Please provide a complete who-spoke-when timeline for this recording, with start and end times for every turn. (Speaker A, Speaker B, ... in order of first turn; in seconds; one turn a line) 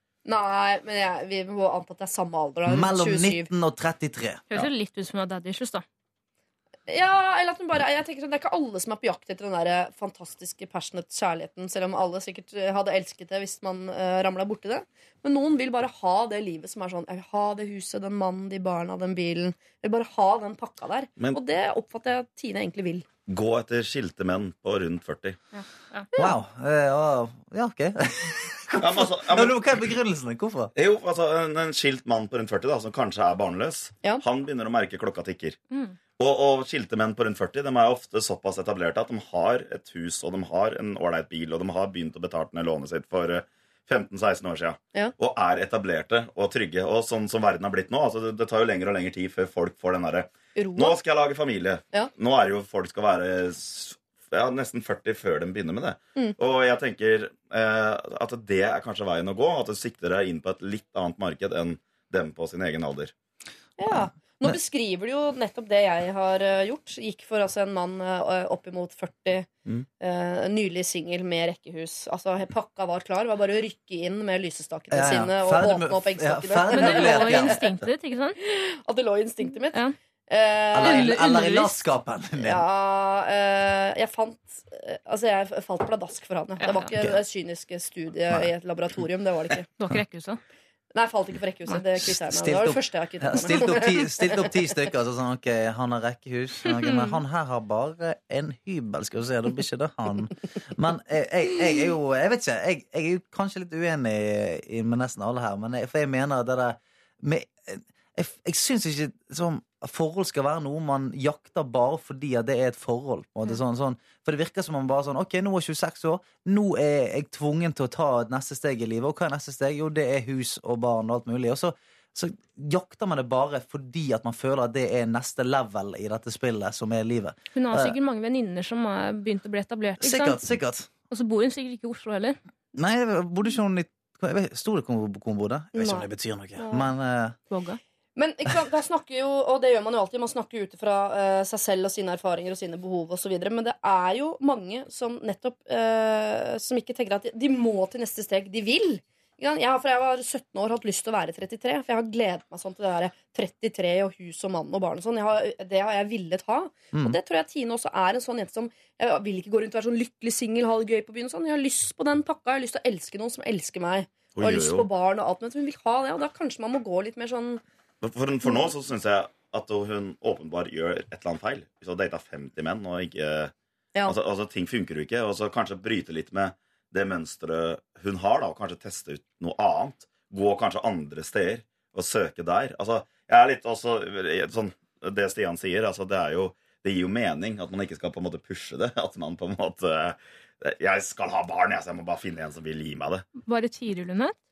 Speaker A: 0.2-3.5
Speaker B: 2.6-4.4
Speaker C: 4.5-5.8
Speaker A: 6.9-23.1
Speaker D: 23.3-25.4
Speaker C: 25.5-26.1
Speaker B: 26.1-30.7
Speaker D: 28.8-29.6
Speaker D: 30.8-35.6
Speaker D: 36.2-63.1
Speaker A: 50.5-50.9
Speaker A: 63.8-69.5
Speaker B: 63.9-64.5
Speaker A: 70.0-77.5
Speaker B: 74.9-77.6
Speaker C: 76.7-78.4
Speaker A: 78.4-81.1
Speaker B: 80.7-82.6
Speaker C: 80.8-81.8
Speaker A: 82.4-89.7
Speaker C: 89.8-90.4
Speaker A: 90.9-94.5
Speaker B: 92.0-128.0
Speaker C: 96.7-97.1
Speaker C: 127.5-130.4
Speaker B: 130.0-130.9
Speaker C: 131.1-132.4
Speaker B: 132.7-137.4
Speaker A: 135.7-136.8
Speaker C: 137.5-137.8
Speaker A: 138.2-167.6
Speaker D: 164.3-164.9
Speaker D: 168.0-173.5
Speaker D: 174.0-193.2
Speaker C: 193.4-194.3